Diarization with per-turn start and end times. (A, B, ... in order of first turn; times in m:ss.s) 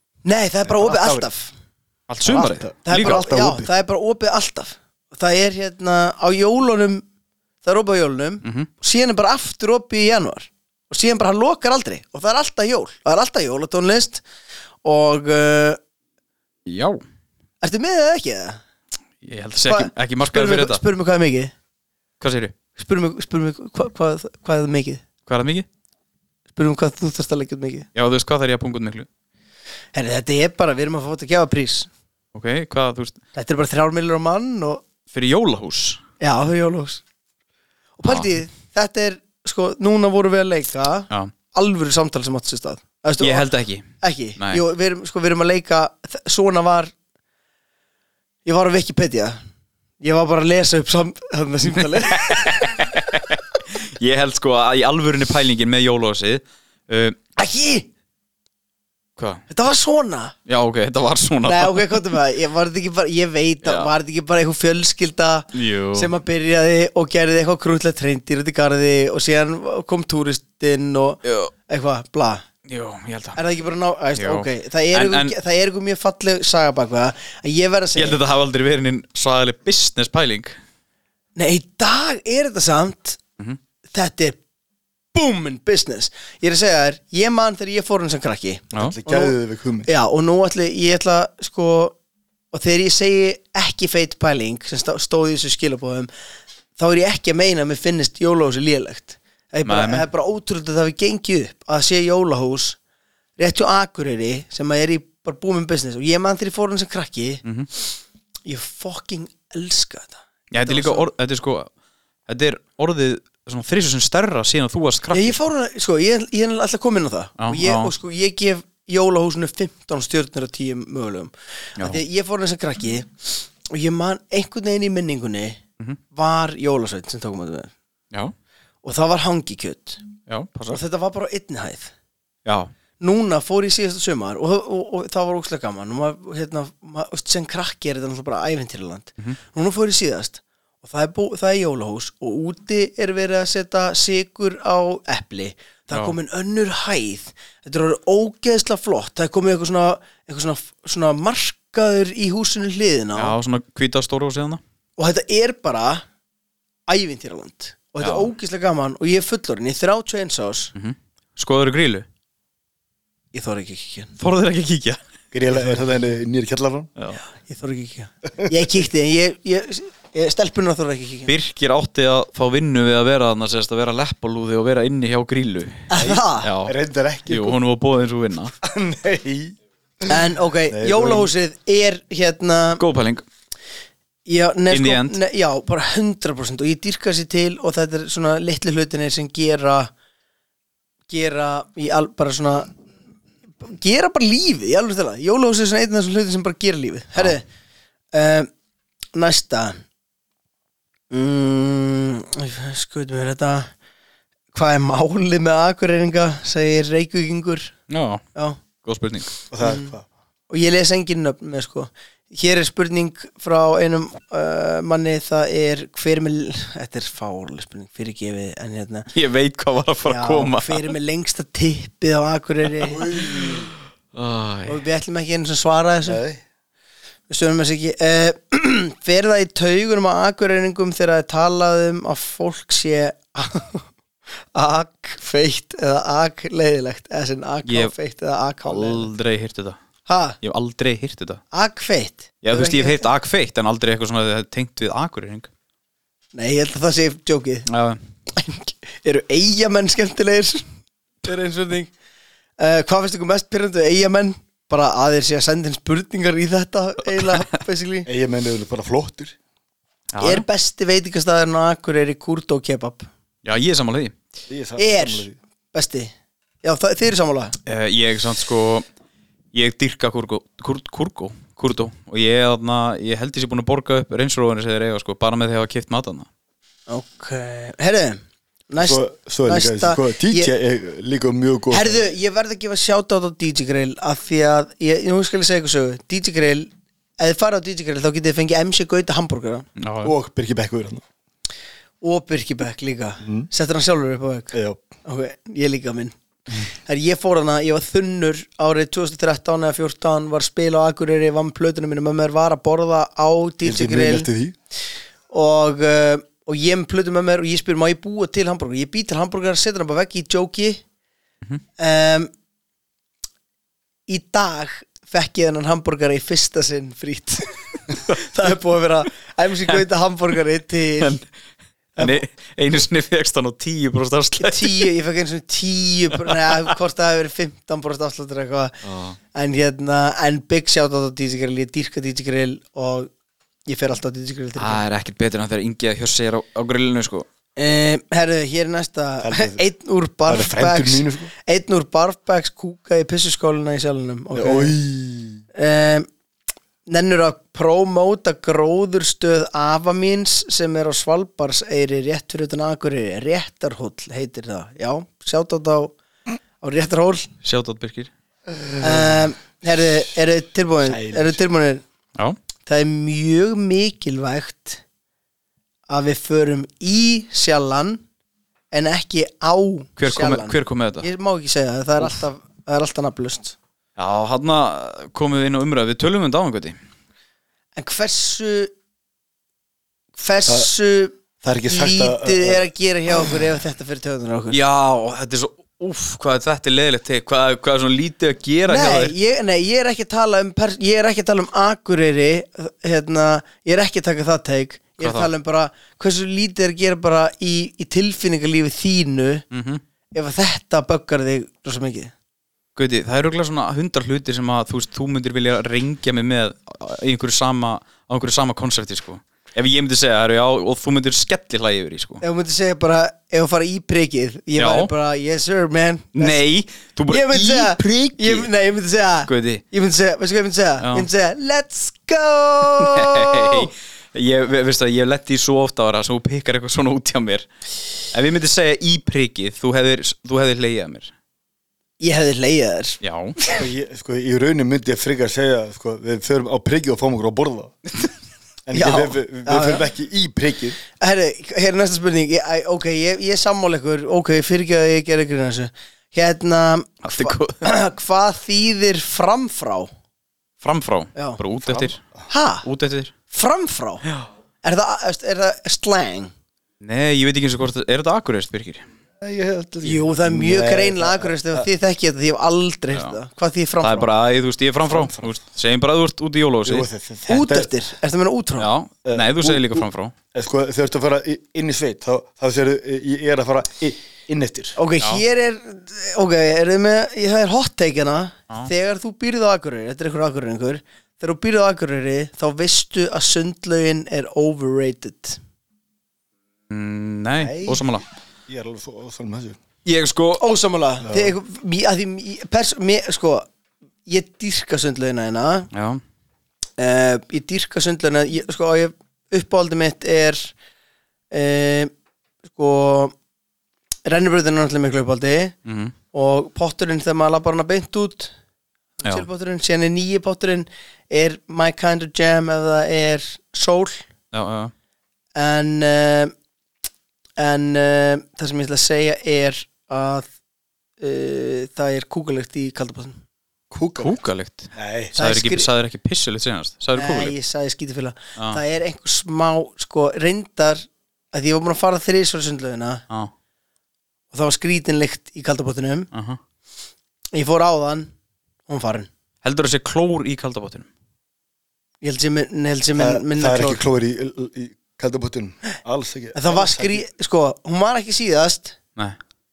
0:00.2-0:01.5 A
0:00.7-0:01.3 B
0:02.1-0:03.2 C
0:02.2-0:03.7 B
0:02.8-0:07.0 A
0:07.6-0:14.2 A
0:08.4-0:08.7 C
0:14.8-0:15.8 A
0:16.7-0:17.0 C
0:17.6-0:18.6 A
0:19.2-0:20.8 C
0:19.6-0:21.5 A
0:22.2-0:22.5 C
0:22.8-0:25.0 A
0:25.3-0:25.7 C
0:26.5-0:27.9 A
0:28.0-0:29.1 C
0:29.9-0:31.9 A
0:32.3-0:33.2 C
0:33.4-0:34.8 A
0:35.1-0:36.0 C
0:36.2-0:37.0 A
0:38.0-0:43.5 A
0:38.0-0:38.3 C
0:43.2-0:43.9 C
0:44.0-0:46.9 A
0:48.4-0:49.4 A
0:50.0-0:52.6 A
0:51.8-0:57.2 C
0:57.4-0:57.9 A
0:59.2-0:59.4 C
0:59.5-1:00.4 A
1:00.5-1:02.1 C
1:01.4-1:12.4 A
1:03.6-1:03.9 C
1:05.5-1:06.1 C
1:11.2-1:11.5 C
1:12.7-1:13.4 C
1:13.4-1:18.2 A
1:14.2-1:15.4 C
1:18.0-1:20.6 C
1:21.4-1:23.2 A
1:23.9-1:24.4 A
1:25.1-1:29.3 A
1:28.8-1:29.9 B
1:29.9-1:32.0 A
1:32.5-1:36.1 A
1:36.8-1:42.8 A
1:39.7-1:40.1 C
1:43.4-1:47.4 A
1:47.4-1:47.7 C
1:48.5-1:51.1 A
1:50.5-1:51.7 C
1:52.3-1:55.4 C
1:55.1-2:05.6 A
1:57.4-1:57.9 C
2:06.1-2:07.7 A
2:08.8-2:10.0 A
2:10.3-2:10.8 C
2:10.7-2:11.9 A
2:12.5-2:12.7 C
2:13.0-2:33.4 A
2:33.2-2:34.6 C
2:35.0-2:36.0 A
2:36.9-2:40.7 A
2:38.0-2:38.3 C
2:40.8-2:42.1 C
2:43.3-2:44.1 A
2:44.2-2:45.0 C
2:45.3-2:46.9 B
2:47.3-2:51.3 A
2:51.3-2:55.9 C
2:55.9-2:56.5 A
2:56.0-2:57.6 B
2:56.4-2:56.7 C
2:57.3-2:58.5 C
2:58.6-3:00.2 B
3:00.1-3:02.8 A
3:00.7-3:01.3 B
3:02.8-3:03.2 C
3:04.3-3:09.9 A
3:04.7-3:05.2 C
3:11.1-3:12.7 A
3:13.6-3:17.4 A
3:18.1-3:18.5 A
3:19.1-3:19.8 A
3:21.1-3:23.7 A
3:24.5-3:27.7 A
3:27.9-3:28.2 C
3:28.8-3:29.4 C
3:29.5-3:30.0 B
3:29.6-3:30.0 A
3:30.5-3:39.1 A
3:39.1-3:40.9 C
3:40.0-3:43.2 A
3:42.9-3:43.7 B
3:44.1-3:44.8 C
3:44.7-3:46.2 A
3:46.1-3:46.4 B
3:47.3-3:53.8 A
3:54.5-3:59.1 A
3:57.7-3:57.9 C
3:58.7-3:59.8 C
4:00.1-4:00.4 A
4:00.4-4:01.4 C
4:01.5-4:03.1 A
4:02.4-4:05.5 C
4:06.3-4:07.7 A
4:07.7-4:08.0 C
4:08.3-4:10.7 A
4:11.2-4:11.9 A
4:12.6-4:18.1 A
4:18.1-4:19.4 B
4:20.1-4:20.4 C
4:20.2-4:23.1 A
4:23.4-4:24.2 C
4:24.5-4:25.4 B
4:24.8-4:27.5 A
4:27.7-4:28.8 C
4:29.5-4:36.3 C
4:36.9-4:40.5 A
4:38.8-4:42.0 B
4:41.7-4:49.7 A
4:49.8-4:50.1 C
4:50.0-4:51.0 B
4:52.0-4:56.1 A
4:53.2-4:53.5 B
4:54.5-4:54.8 B
4:56.7-5:04.3 A
5:03.6-5:04.6 B
5:05.3-5:10.8 A
5:11.8-5:12.3 A
5:14.1-5:21.2 A
5:22.0-5:22.2 A
5:22.0-5:24.9 C
5:24.4-5:28.8 A
5:26.2-5:26.6 C
5:28.8-5:29.2 C
5:29.3-5:33.1 A
5:33.7-5:34.8 A
5:34.6-5:37.3 C
5:37.6-5:44.8 A
5:39.2-5:39.6 B
5:40.3-5:41.3 B
5:44.3-5:45.4 B
5:45.5-5:46.1 A
5:46.9-5:56.0 A
5:56.6-5:57.3 A
5:57.4-5:58.1 C
5:58.5-5:59.3 B
5:58.8-6:01.8 A
6:00.8-6:01.4 B
6:02.7-6:04.8 A
6:05.9-6:08.0 A
6:08.7-6:13.6 A
6:10.0-6:11.1 C
6:14.0-6:16.8 C
6:17.8-6:18.7 A
6:20.2-6:24.6 A
6:21.4-6:22.7 B
6:24.5-6:29.1 C
6:28.7-6:39.4 A
6:35.0-6:35.3 C
6:39.5-6:39.8 C
6:40.1-6:42.1 A
6:42.8-6:52.2 C
6:52.2-6:56.4 A
6:54.6-6:54.9 C
6:56.2-6:58.5 C
6:57.1-7:03.7 A
6:59.3-6:59.6 C
7:00.8-7:01.1 C
7:02.8-7:07.5 C
7:08.1-7:11.1 C
7:12.0-7:13.6 A
7:13.0-7:13.4 C
7:13.5-7:17.8 B
7:18.7-7:20.8 B
7:18.7-7:19.8 A
7:21.0-7:29.9 A
7:27.0-7:27.7 C
7:30.6-7:32.0 C
7:31.6-7:31.9 B
7:32.3-7:32.6 A
7:32.6-7:33.1 C
7:33.3-7:34.0 A
7:34.6-7:36.3 A
7:36.8-7:38.8 C
7:39.2-7:41.7 B
7:39.8-7:44.1 A
7:43.8-7:46.9 C
7:44.9-7:45.3 B
7:46.6-7:47.7 B
7:47.3-7:48.7 A
7:48.6-7:50.1 C
7:49.0-7:54.8 B
7:54.8-8:05.4 A
8:06.7-8:08.0 C
8:07.4-8:07.9 B
8:08.5-8:09.6 B
8:09.8-8:10.4 C
8:10.4-8:13.5 A
8:11.0-8:11.4 B
8:14.1-8:15.7 A
8:15.7-8:16.0 C
8:16.8-8:20.5 A
8:21.3-8:21.9 A
8:22.5-8:23.2 A
8:24.0-8:25.6 A
8:25.7-8:25.9 C
8:26.1-8:28.3 A
8:29.0-8:34.1 A
8:34.3-8:34.7 C
8:35.4-8:36.3 A
8:37.4-8:40.3 A
8:41.0-8:43.2 A
8:43.7-8:44.2 B
8:44.0-8:47.4 C
8:44.8-8:45.2 B
8:45.2-8:45.7 A
8:47.0-8:53.0 A
8:54.3-8:56.1 A
8:56.1-8:56.4 C
8:57.3-8:58.1 A
8:58.7-8:59.1 A
8:59.4-9:00.9 C
9:02.0-9:03.8 A
9:03.0-9:07.0 B
9:06.4-9:08.8 A